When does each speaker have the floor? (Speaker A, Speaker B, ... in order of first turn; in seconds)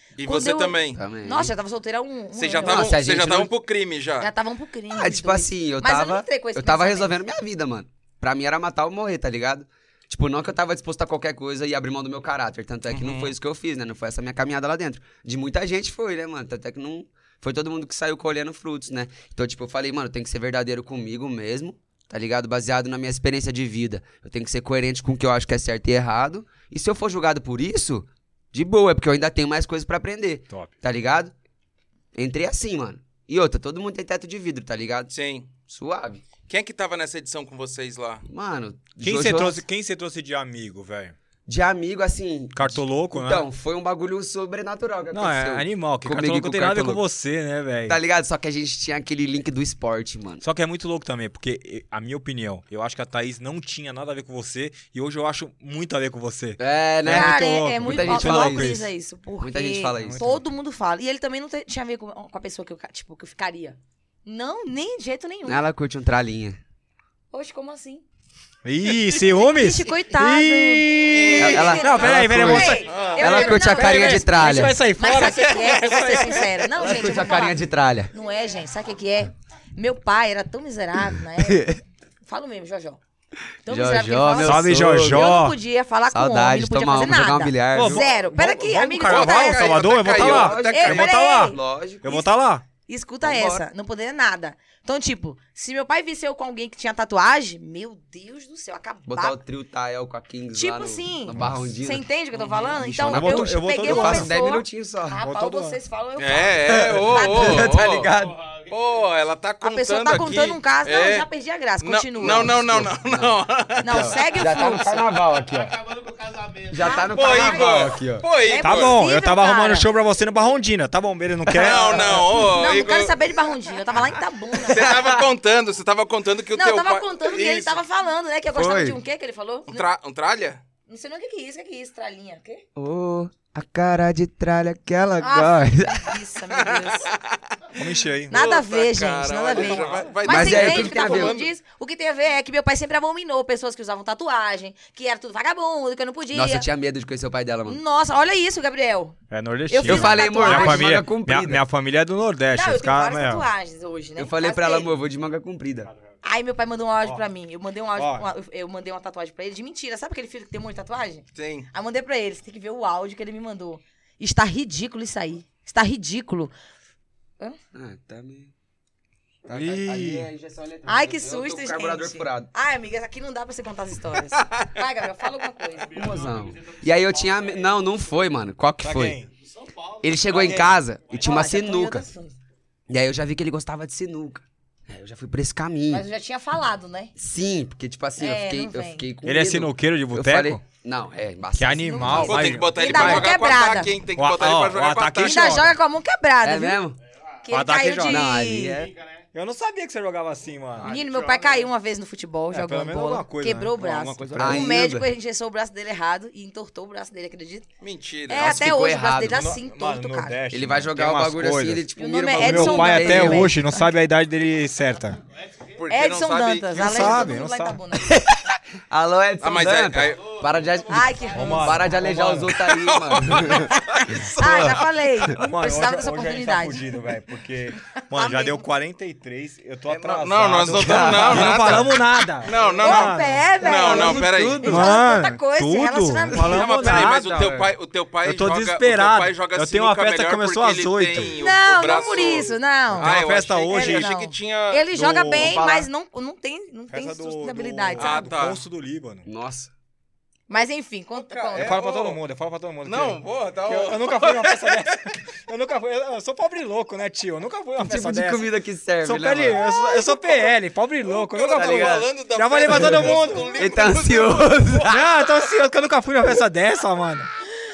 Speaker A: 0.2-1.0, 2.4-4.3, 12.9-13.3, 35.1-35.5, 36.5-38.2, 72.9-73.2, 75.7-76.2, 89.0-91.0, 102.4-102.7, 106.2-108.1, 108.7-111.3, 111.8-114.2, 116.9-119.0, 121.5-123.2, 124.6-127.8, 129.7-130.6, 136.6-137.4, 138.3-141.5, 161.3-161.7, 174.4-174.7, 192.2-195.6, 200.8-201.5, 207.8-208.6, 215.7-217.2, 219.4-220.4, 222.6-224.8, 229.9-234.9, 236.3-244.8, 248.0-248.6, 251.2-252.2, 252.8-254.9, 261.1-265.1
Speaker B: 0.2-3.0, 4.2-7.2, 57.0-65.6, 67.3-68.0, 69.3-77.6, 78.1-81.7, 82.2-83.0, 83.6-89.8, 90.7-91.6, 92.9-99.4, 100.5-107.7, 109.6-112.6, 113.8-115.0, 116.8-117.8, 118.4-119.9, 122.3-125.0, 126.5-129.8, 130.9-132.6, 135.2-137.1, 138.3-146.7, 147.7-149.2, 149.7-150.9, 152.5-154.9, 156.2-166.5, 170.8-176.0, 181.1-182.4, 185.9-187.1, 188.2-189.1, 191.8-193.9, 195.2-196.8, 197.4-198.8, 200.8-207.7, 208.3-210.4, 212.0-213.9, 215.9-218.2, 220.9-221.9, 224.2-227.0, 228.1-228.6, 232.8-237.1, 241.4-243.2, 243.7-248.3, 250.5-251.8
Speaker C: 0.9-1.5, 2.6-3.5, 4.9-31.3, 32.1-35.1, 35.7-36.2, 38.3-39.6, 41.5-47.0, 47.9-50.4, 56.6-58.7, 59.4-60.2, 65.5-66.6, 71.3-74.8, 76.8-78.1, 81.4-81.8, 83.7-85.4, 86.1-88.1, 89.9-92.2, 93.2-93.6, 99.1-102.0, 102.7-105.2, 106.6-108.4, 112.2-115.8, 116.7-118.2, 121.6-122.2, 124.7-125.2, 128.5-129.0, 132.8-136.2, 140.2-141.4, 146.3-147.8, 149.8-151.6, 154.2-155.9, 167.7-168.5, 169.4-172.5, 175.9-179.2, 180.0-182.1, 182.9-186.0, 187.2-192.6, 196.4-197.0, 198.1-198.9, 204.4-205.1, 208.3-209.5, 210.5-213.5, 218.0-224.8, 230.7-231.9, 233.9-234.7, 245.3-245.9, 249.2-249.7, 257.8-259.6, 261.6-262.1, 262.7-265.0
Speaker D: 39.0-41.1, 42.5-43.5, 45.1-48.0, 50.4-58.9, 60.0-60.4, 68.6-76.8, 84.4-85.6, 87.7-92.6, 103.0-104.3, 105.2-105.8, 118.6-122.3, 137.7-138.3, 149.3-153.4, 157.9-158.3, 169.5-170.3, 178.8-179.3, 180.3-180.8, 189.2-190.6, 191.6-193.3, 194.2-195.8, 197.5-198.3, 199.3-201.0, 202.5-204.8, 209.2-215.2, 216.7-217.8, 221.3-222.6, 225.3-237.7, 238.2-241.4, 242.9-244.1, 244.9-245.6, 246.9-249.2, 251.5-258.5, 259.0-263.6, 264.8-267.3
Speaker E: 115.8-116.8, 175.9-177.7, 179.4-180.3, 198.7-199.2, 203.9-204.6